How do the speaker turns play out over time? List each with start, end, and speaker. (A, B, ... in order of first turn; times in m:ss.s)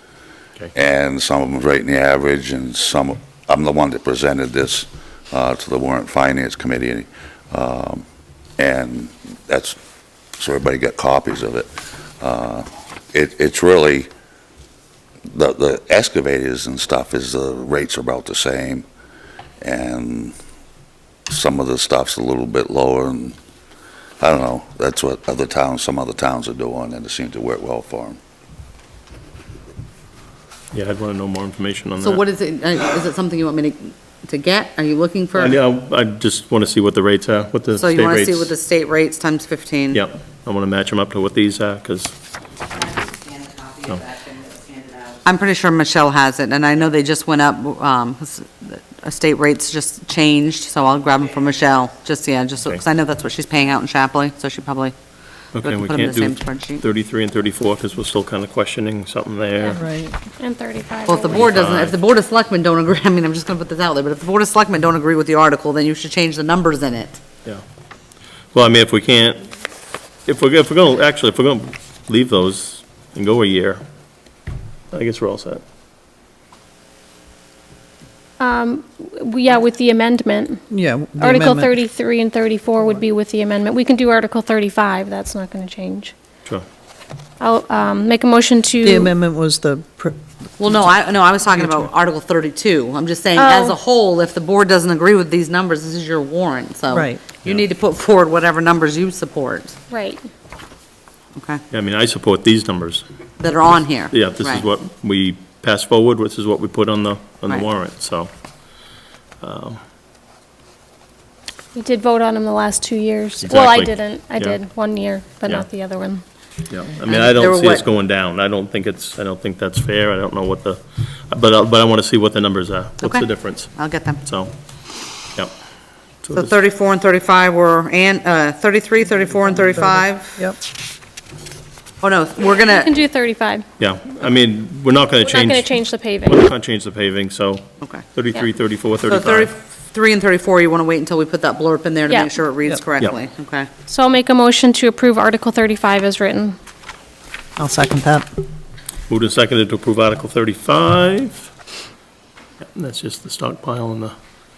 0:00.7-0:08.0 A
0:08.6-0:09.8 A
0:10.4-0:14.1 A
0:15.3-0:18.9 A
0:19.6-0:20.4 A
0:21.3-0:23.4 A
0:24.2-0:28.2 A
0:30.7-0:32.2 B
0:32.0-0:35.6 C
0:35.4-0:38.5 B
0:37.8-0:40.0 C
0:39.9-0:42.1 B
0:42.8-0:55.0 C
0:55.6-0:59.8 B
0:55.6-0:56.8 C
0:59.8-1:00.2 D
1:00.4-1:01.5 E
1:01.1-1:07.2 C
1:01.4-1:02.0 B
1:08.5-1:09.5 B
1:10.3-1:13.8 B
1:14.9-1:15.6 B
1:18.4-1:20.6 E
1:20.7-1:21.7 D
1:21.2-1:26.1 E
1:27.4-1:29.2 E
1:28.8-1:30.2 D
1:30.6-1:39.8 C
1:33.4-1:33.8 E
1:36.9-1:37.2 D
1:39.9-1:40.2 E
1:41.4-1:41.6 C
1:41.7-1:43.0 B
1:43.4-1:44.6 C
1:44.1-1:48.3 B
1:49.4-1:49.8 B
1:51.7-1:56.2 E
1:53.4-1:54.6 B
1:56.7-2:04.5 B
1:57.1-1:57.8 C
2:03.0-2:04.2 C
2:06.2-2:06.5 B
2:06.3-2:10.4 C
2:09.7-2:10.6 D
2:12.0-2:12.9 C
2:12.6-2:13.6 E
2:13.8-2:19.5 B
2:15.2-2:16.4 E
2:19.1-2:23.7 C
2:23.9-2:26.6 E
2:27.6-2:28.3 D
2:29.1-2:31.5 B
2:32.6-2:34.1 B